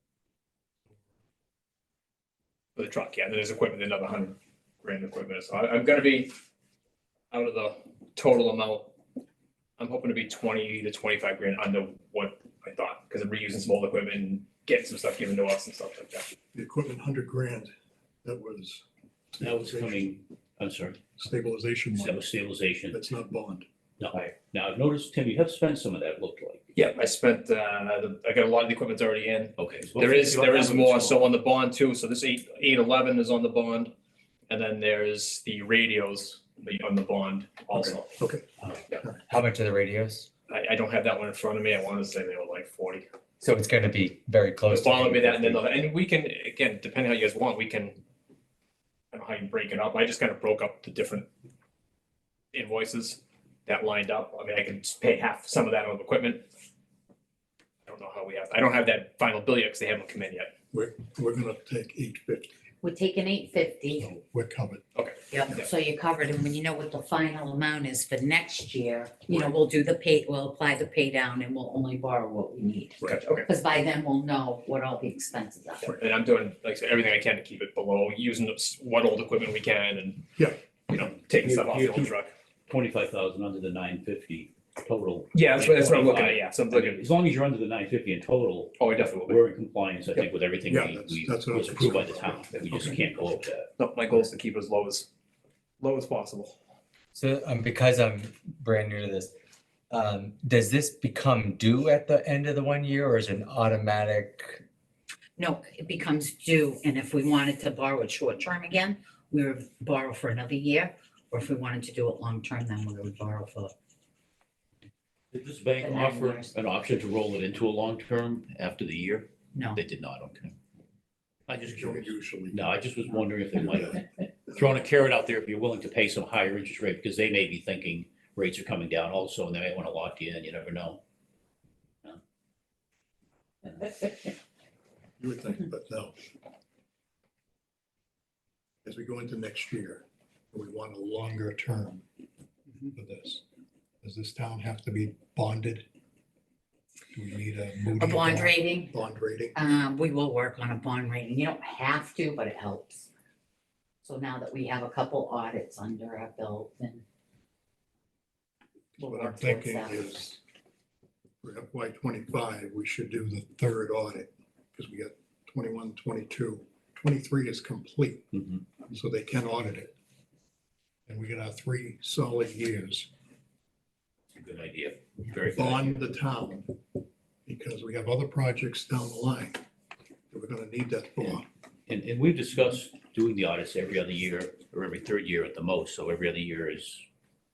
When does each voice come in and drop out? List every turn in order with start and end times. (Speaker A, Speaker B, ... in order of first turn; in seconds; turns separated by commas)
Speaker A: 2.8-6.3, Speaker A: 7.3-8.9, Speaker A: 9.8-16.3, Speaker B: 16.5-17.7, Speaker B: 18.2-20.1, Speaker C: 19.4-21.0, Speaker B: 21.2-22.2, Speaker C: 21.9-23.0, Speaker B: 22.9-23.7, Speaker C: 24.0-26.7, Speaker A: 26.8-33.9, Speaker C: 29.6-31.3, Speaker A: 34.5-38.2, Speaker B: 37.7-38.4, Speaker D: 39.3-40.3, Speaker A: 40.5-43.0, Speaker D: 43.4-45.7, Speaker A: 44.7-48.0, Speaker A: 49.1-51.3, Speaker A: 52.5-56.4, Speaker A: 57.9-60.5, Speaker B: 60.7-62.5, Speaker E: 62.8-64.1, Speaker B: 64.0-64.8, Speaker A: 65.0-65.6, Speaker E: 65.3-75.9, Speaker A: 73.0-73.5, Speaker A: 75.8-80.3, Speaker A: 80.9-82.3, Speaker C: 81.0-82.2, Speaker C: 82.7-93.7, Speaker A: 85.3-87.0, Speaker A: 88.8-89.4, Speaker B: 90.7-93.0, Speaker A: 93.8-95.1, Speaker A: 95.8-96.6, Speaker D: 97.1-99.3, Speaker D: 99.9-104.6, Speaker E: 105.4-113.7, Speaker C: 115.3-120.5, Speaker E: 115.8-116.5, Speaker E: 119.5-119.8, Speaker C: 121.5-131.0, Speaker B: 121.6-122.8, Speaker B: 123.6-124.0, Speaker B: 135.2-136.2, Speaker B: 138.8-142.0, Speaker B: 142.9-143.4, Speaker B: 144.0-145.8, Speaker B: 147.1-149.6, Speaker E: 148.0-148.9, Speaker E: 149.6-153.1, Speaker E: 154.0-157.0, Speaker E: 159.0-160.2, Speaker B: 159.0-160.4, Speaker B: 161.4-168.3, Speaker C: 168.3-168.6, Speaker B: 168.9-169.9, Speaker B: 171.1-173.1, Speaker C: 174.3-176.0, Speaker B: 175.5-176.7, Speaker B: 177.5-179.6, Speaker B: 180.3-181.5, Speaker C: 181.9-187.1